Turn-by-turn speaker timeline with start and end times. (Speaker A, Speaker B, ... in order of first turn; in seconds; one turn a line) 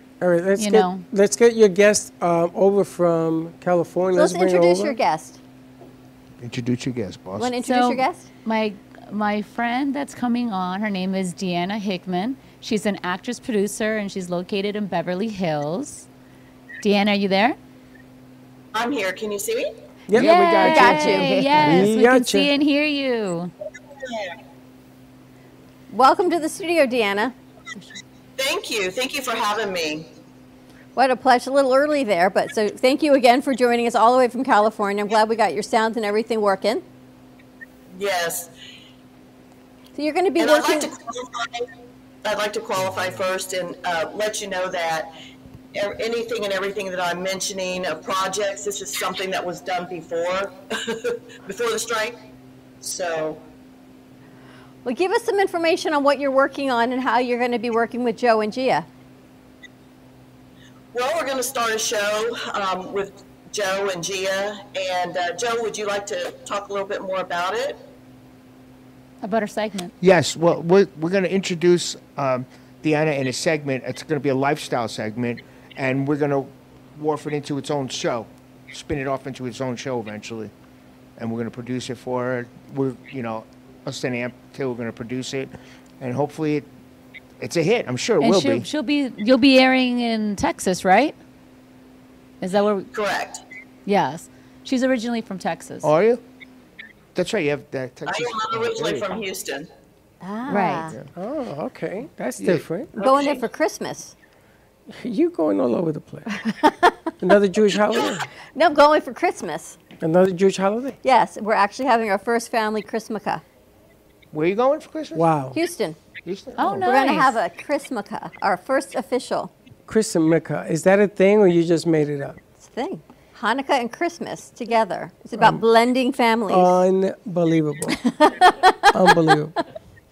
Speaker A: 0.2-5.0
Speaker B: 0.6-1.1
Speaker C: 4.1-5.4
Speaker D: 6.4-7.5
Speaker C: 7.4-8.3
Speaker B: 7.6-16.1
Speaker B: 16.8-17.6
Speaker E: 18.7-19.7
Speaker A: 20.1-22.5
Speaker B: 20.1-23.5
Speaker C: 20.2-21.4
Speaker C: 25.9-27.3
Speaker E: 28.4-30.1
Speaker C: 30.9-36.8
Speaker E: 37.9-38.5
Speaker C: 40.0-40.9
Speaker E: 40.4-41.7
Speaker E: 42.2-45.1
Speaker E: 45.7-52.2
Speaker E: 52.8-53.4
Speaker C: 54.8-58.9
Speaker E: 60.9-67.8
Speaker B: 69.2-69.9
Speaker D: 70.0-80.5
Speaker D: 81.2-86.7
Speaker D: 87.4-88.7
Speaker B: 88.2-91.2
Speaker B: 92.4-92.9
Speaker E: 92.9-93.4
Speaker B: 93.8-95.9
Speaker D: 95.8-96.2
Speaker D: 97.1-99.2
Speaker E: 98.0-99.7
Speaker C: 100.2-101.0
Speaker B: 100.5-100.8
Speaker D: 100.8-101.1
Speaker A: 101.2-102.9
Speaker D: 102.4-102.7
Speaker C: 103.0-104.1
Speaker E: 103.0-103.4
Speaker A: 104.9-106.2
Speaker C: 106.3-107.1
Speaker A: 107.2-108.3
Speaker C: 108.5-109.8
Speaker A: 110.0-111.0
Speaker C: 111.0-113.4
Speaker D: 114.3-115.2
Speaker A: 115.1-115.6
Speaker C: 115.5-116.0
Speaker D: 116.2-116.9
Speaker B: 116.6-117.4
Speaker C: 116.8-119.5
Speaker A: 119.9-122.4
Speaker C: 122.6-126.8
Speaker A: 126.5-128.0
Speaker C: 128.0-128.8
Speaker A: 128.9-129.5